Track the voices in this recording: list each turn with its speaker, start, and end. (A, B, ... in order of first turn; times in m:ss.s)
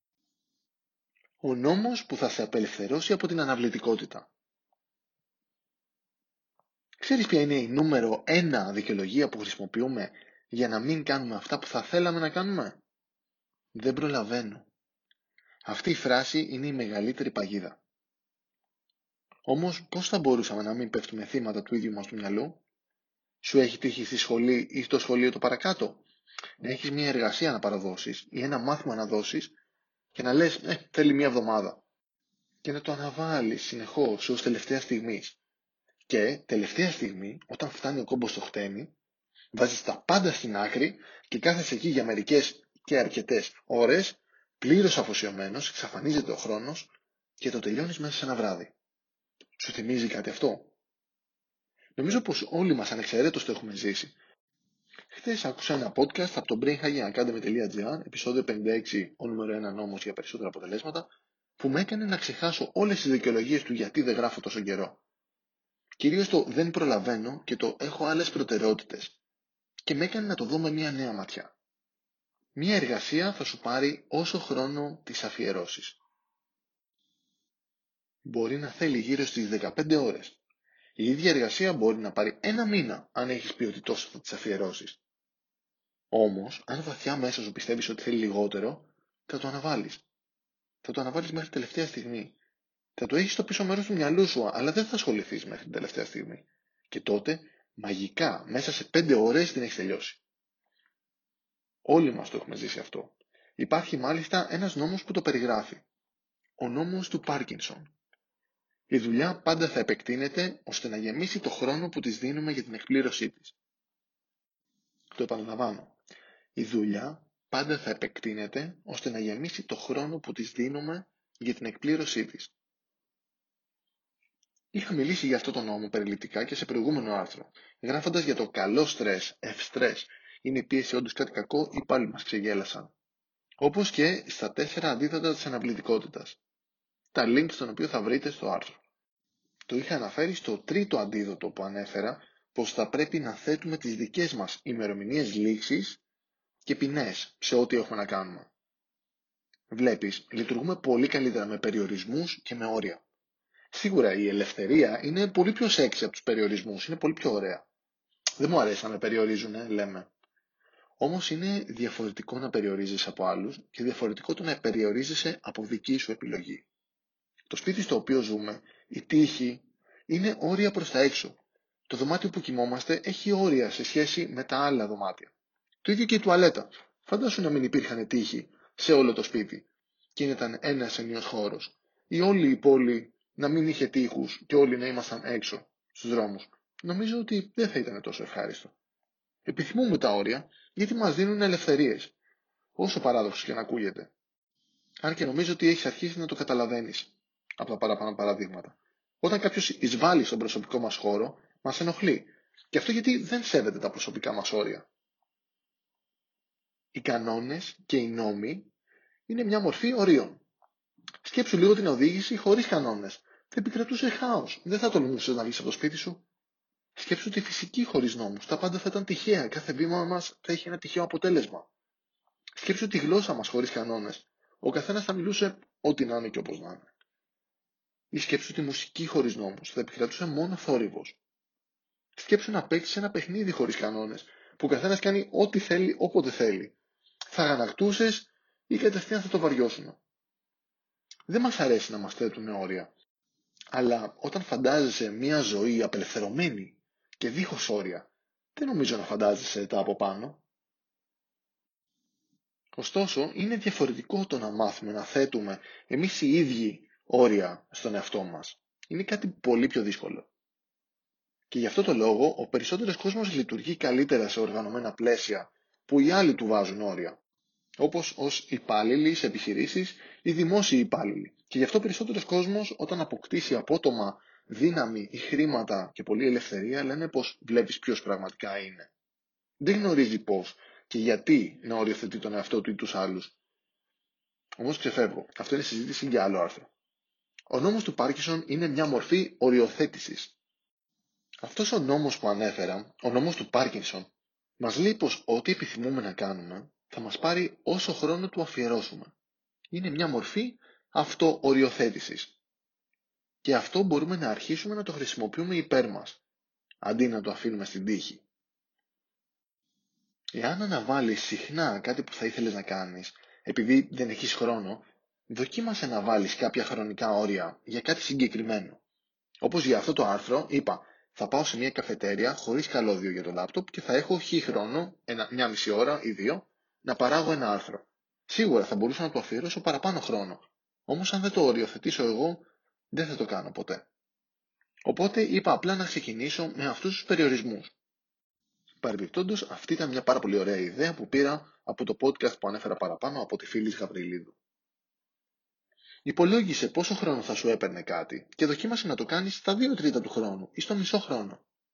0:01.4-0:04.3 A
0:07.0-0:12.8 A
0:13.7-0:14.7 A
0:15.6-0:17.8 A
0:19.4-0:22.6 A
0:23.4-0:26.0 A
0:26.6-0:29.5 A
0:30.1-0:31.8 A
0:32.6-0:35.4 A
0:36.0-0:38.9 A
0:39.5-0:48.7 A
0:49.6-0:50.7 A
0:52.0-0:54.1 A
0:55.1-1:05.0 A
1:06.0-1:09.2 A
1:09.8-1:11.5 A
1:12.5-1:16.0 A
1:18.2-1:20.4 A
1:21.0-1:25.0 A
1:26.1-1:30.0 A
1:30.8-1:32.4 A
1:33.0-1:40.2 A
1:41.8-1:45.8 A
1:46.6-1:47.9 A
1:48.9-1:53.6 A
1:55.1-1:56.0 A
1:56.6-2:02.5 A
2:04.7-2:12.9 A
2:13.6-2:16.4 A
2:17.1-2:18.8 A
2:19.7-2:26.0 A
2:26.6-2:28.5 A
2:29.7-2:33.0 A
2:33.7-2:37.6 A
2:38.4-2:40.1 A
2:41.0-2:46.6 A
2:47.5-2:55.3 A
2:55.8-3:08.7 A
3:09.4-3:12.1 A
3:12.8-3:14.1 A
3:15.0-3:24.9 A
3:26.9-3:28.7 A
3:29.3-3:30.4 A
3:31.2-3:36.2 A
3:37.0-3:41.7 A
3:42.6-3:46.9 A
3:48.1-3:51.2 A
3:52.2-3:56.8 A
3:57.3-4:00.0 A
4:01.3-4:02.9 A
4:03.7-4:10.4 A
4:12.7-4:20.3 A
4:21.5-4:27.2 A
4:27.8-4:38.9 A
4:39.6-4:43.4 A
4:44.6-4:46.7 A
4:47.5-4:50.4 A
4:51.4-4:59.1 A
4:59.7-5:02.3 A
5:03.4-5:06.2 A
5:06.8-5:08.2 A
5:10.3-5:18.8 A
5:19.4-5:33.8 A
5:34.8-5:37.7 A
5:38.8-5:44.4 A
5:46.0-5:51.4 A